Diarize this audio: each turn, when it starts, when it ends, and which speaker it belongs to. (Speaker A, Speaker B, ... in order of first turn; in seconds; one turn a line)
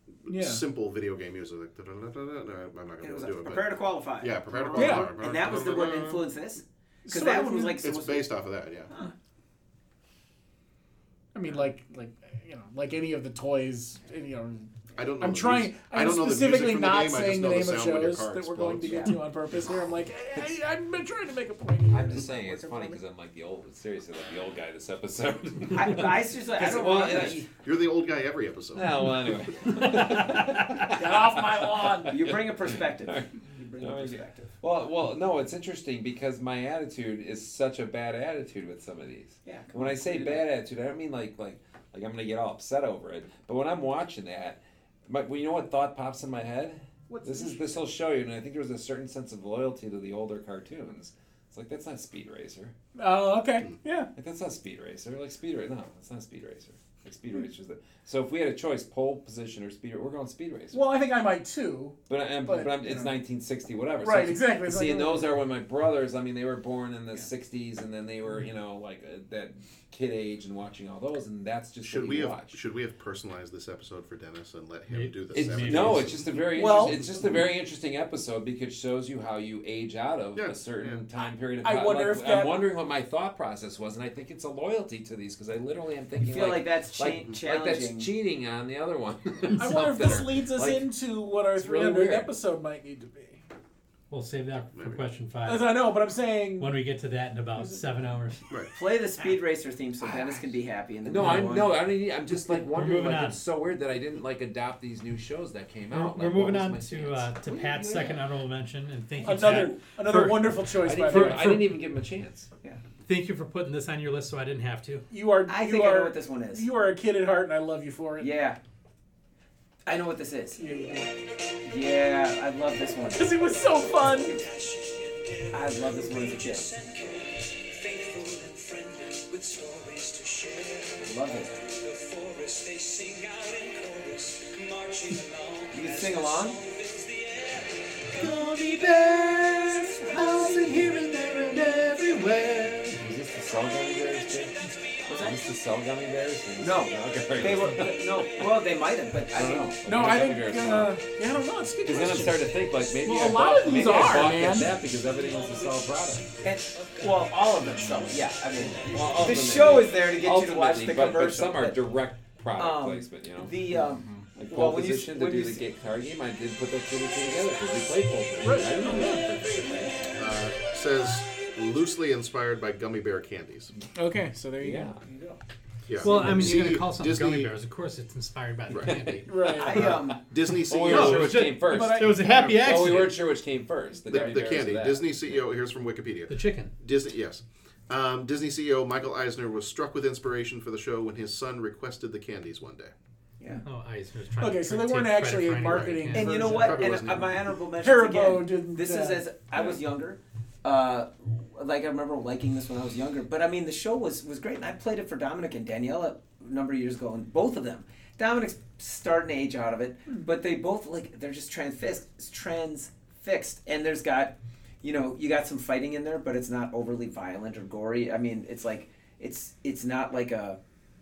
Speaker A: 0.2-6.3
Speaker B: 0.3-0.6
Speaker C: 3.0-8.3
Speaker B: 4.7-5.1
Speaker B: 7.0-7.8
Speaker A: 7.8-8.9
Speaker B: 11.3-22.9
Speaker A: 14.9-19.1
Speaker C: 18.9-19.2
Speaker D: 21.9-27.4
Speaker C: 25.7-27.5
Speaker B: 27.1-27.4
Speaker A: 27.6-29.1
Speaker D: 28.7-33.3
Speaker E: 30.1-30.4
Speaker B: 30.8-32.1
Speaker C: 32.1-34.5
Speaker D: 33.8-52.7
Speaker C: 39.4-40.5
Speaker B: 47.1-47.8
Speaker B: 53.0-54.1
Speaker D: 54.1-60.9
Speaker B: 60.7-63.1
Speaker D: 62.1-72.6
Speaker B: 64.0-65.4
Speaker A: 71.8-76.3
Speaker E: 74.9-76.2
Speaker D: 75.3-90.9
Speaker C: 76.6-77.1
Speaker A: 80.3-81.0
Speaker B: 81.6-82.6
Speaker C: 86.2-88.1
Speaker B: 89.5-93.4
Speaker D: 91.6-92.3
Speaker E: 94.1-95.8
Speaker A: 94.7-95.0
Speaker B: 95.4-96.7
Speaker E: 96.6-98.4
Speaker B: 97.5-97.8
Speaker C: 98.7-101.8
Speaker D: 101.0-107.3
Speaker E: 102.7-103.4
Speaker E: 105.9-111.7
Speaker C: 107.5-108.2
Speaker B: 109.2-111.6
Speaker D: 110.8-112.5
Speaker E: 113.0-115.1
Speaker B: 115.1-118.3
Speaker C: 115.5-116.7
Speaker C: 118.2-118.6
Speaker C: 119.8-120.6
Speaker B: 120.6-121.1
Speaker C: 121.6-123.4
Speaker B: 123.2-124.4
Speaker C: 125.5-126.7
Speaker C: 130.9-131.6
Speaker C: 135.7-136.6
Speaker F: 138.2-140.0
Speaker D: 140.5-140.9
Speaker F: 141.1-142.8
Speaker D: 142.9-144.6
Speaker C: 145.1-145.3
Speaker D: 145.1-148.5
Speaker C: 146.6-149.7
Speaker D: 149.3-151.0
Speaker B: 149.8-154.7
Speaker D: 151.8-156.3
Speaker C: 156.4-161.8
Speaker D: 158.8-163.6
Speaker C: 162.6-165.6
Speaker D: 164.3-170.1
Speaker B: 168.4-169.6
Speaker A: 170.2-173.7
Speaker B: 173.9-175.4
Speaker D: 174.6-175.0
Speaker A: 175.9-177.5
Speaker E: 176.0-179.3
Speaker B: 176.0-176.5
Speaker A: 178.7-179.0
Speaker D: 178.9-180.0
Speaker B: 179.2-179.9
Speaker C: 179.6-180.2
Speaker A: 179.8-181.4
Speaker D: 180.7-185.4
Speaker E: 180.8-183.1
Speaker B: 181.6-182.9
Speaker A: 184.1-192.9
Speaker E: 186.3-186.7
Speaker E: 193.6-196.4
Speaker B: 194.4-197.1
Speaker A: 195.7-197.4
Speaker C: 196.1-220.6
Speaker B: 197.8-199.2